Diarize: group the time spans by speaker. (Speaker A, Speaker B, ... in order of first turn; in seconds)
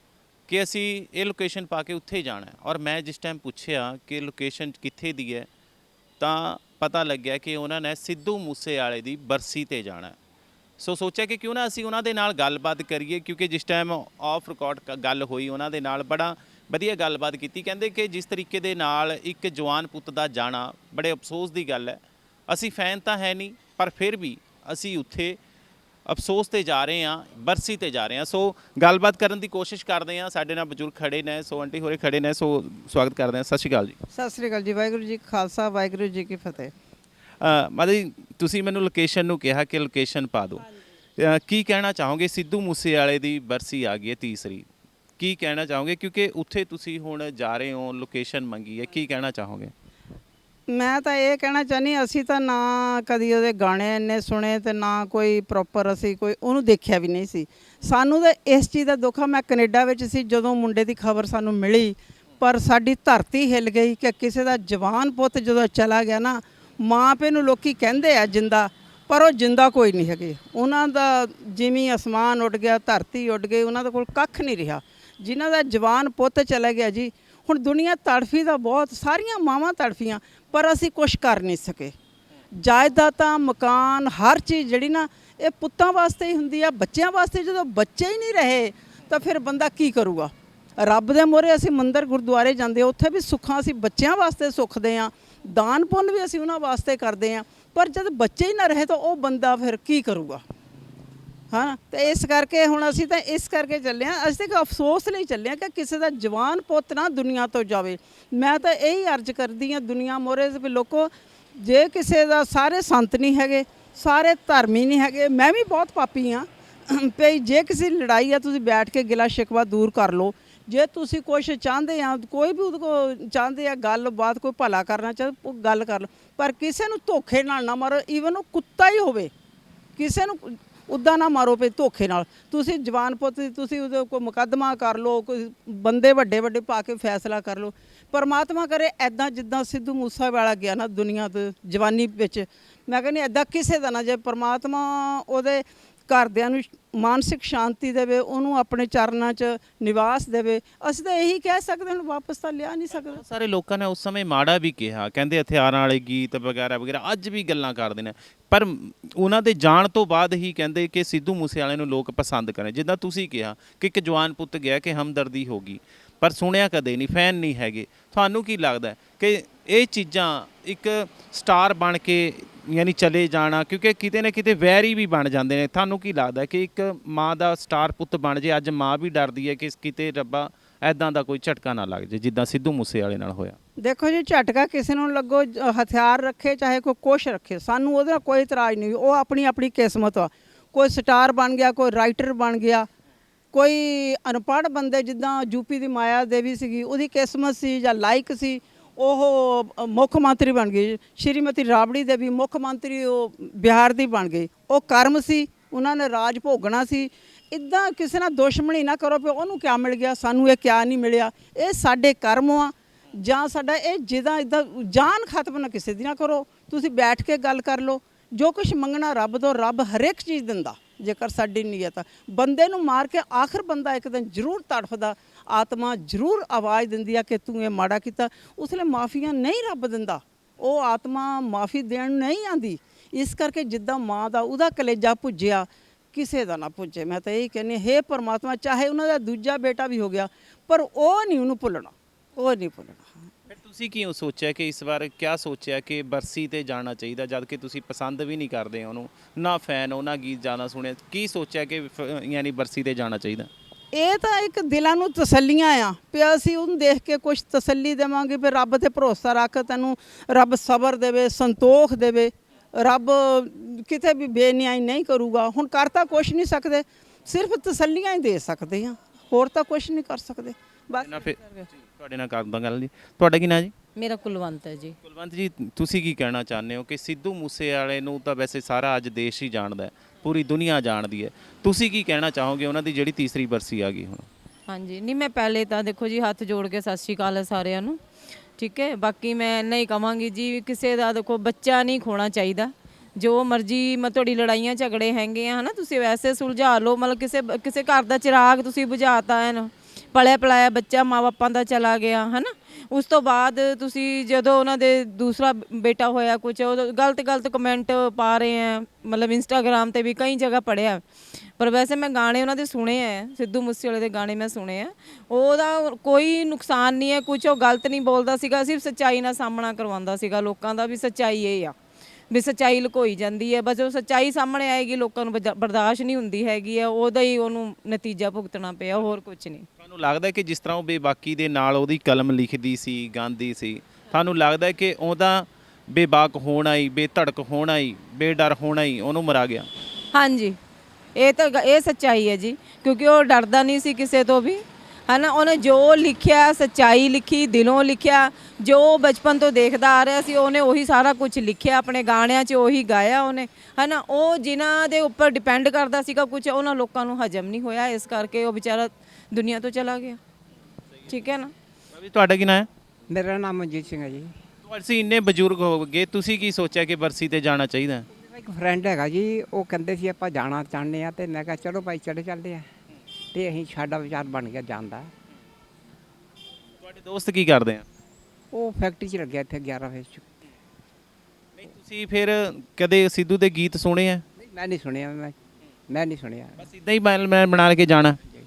Speaker A: 0.5-5.5, 6.2-10.2, 10.8-25.4, 26.1-34.0, 37.4-40.6, 41.2-44.7, 45.2-49.7, 153.0-183.6, 243.5-253.5, 271.0-273.7, 275.0-284.3, 329.8-339.7, 361.9-362.7, 364.6-368.1, 376.8-377.8, 381.6-384.2, 386.6-388.2
Speaker B: 34.1-36.7, 50.7-81.9, 82.6-100.4, 101.5-129.3, 130.0-153.2, 183.8-192.9, 193.5-243.1, 253.9-271.6
Speaker C: 273.9-274.9, 284.7-288.0, 288.6-311.0, 311.6-321.7, 322.3-329.6, 340.1-340.6, 341.1-360.2, 361.1-361.5
Speaker D: 363.1-364.4, 368.1-372.6, 373.3-375.1, 378.5-380.2, 384.4-385.3, 385.9-386.7